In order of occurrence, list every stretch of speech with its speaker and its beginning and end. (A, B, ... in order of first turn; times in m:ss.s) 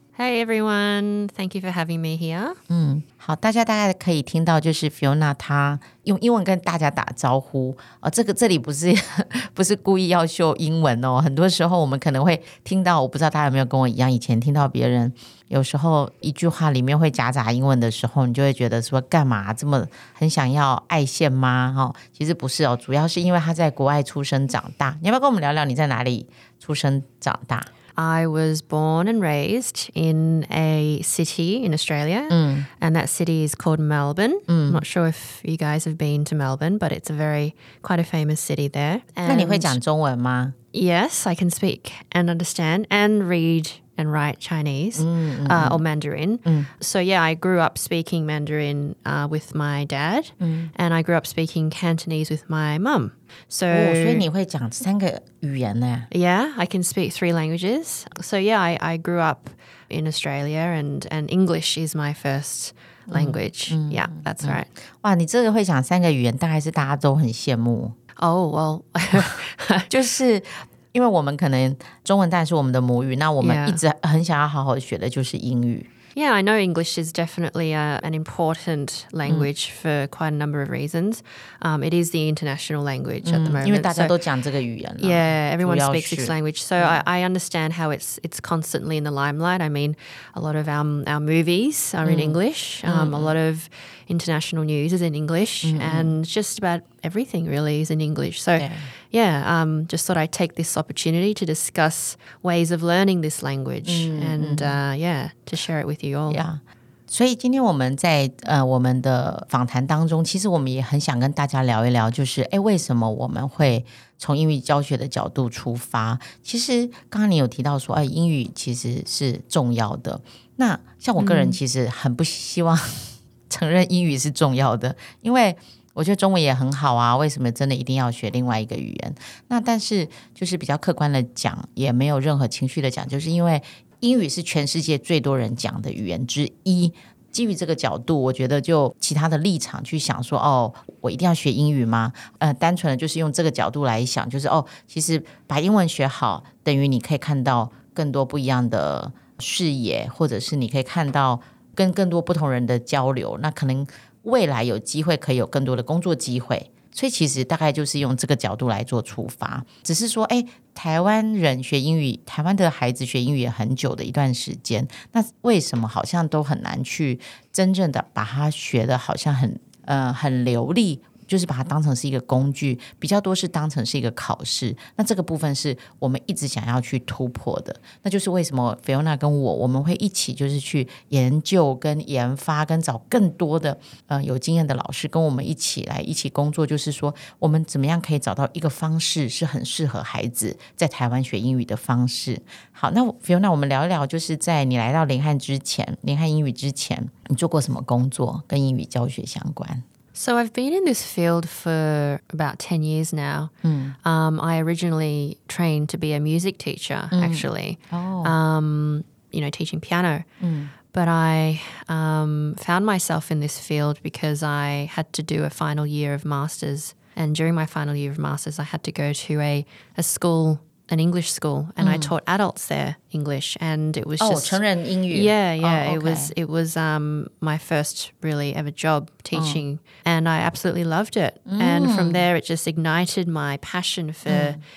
0:00.2-0:02.6 A
0:02.7-0:27.7 B
0:27.9-0:39.8 A
0:32.3-0:32.7 B
0:34.5-0:34.8 B
0:39.2-0:40.5 B
0:40.7-0:54.3 A
0:45.0-0:45.8 B
0:50.4-0:50.7 B
0:53.7-0:56.1 B
0:56.1-1:04.7 A
1:03.1-1:07.9 B
1:08.2-1:09.9 A
1:09.9-1:15.9 B
1:13.4-1:13.8 A
1:16.1-1:24.2 A
1:23.2-1:27.0 B
1:25.0-1:46.4 A
1:32.0-1:33.3 B
1:35.6-1:36.2 B
1:38.6-1:38.9 B
1:43.8-1:44.8 B
1:46.3-3:19.8 B
2:01.2-2:01.6 A
3:20.1-3:23.5 A
3:23.6-3:24.0 B
3:24.0-3:30.3 A
3:27.1-3:28.3 B
3:30.4-3:30.7 B
3:30.9-3:54.6 A
3:41.8-3:42.1 B
3:44.2-3:46.3 B
3:49.3-3:49.6 B
3:51.4-3:52.3 B
3:54.3-3:54.6 B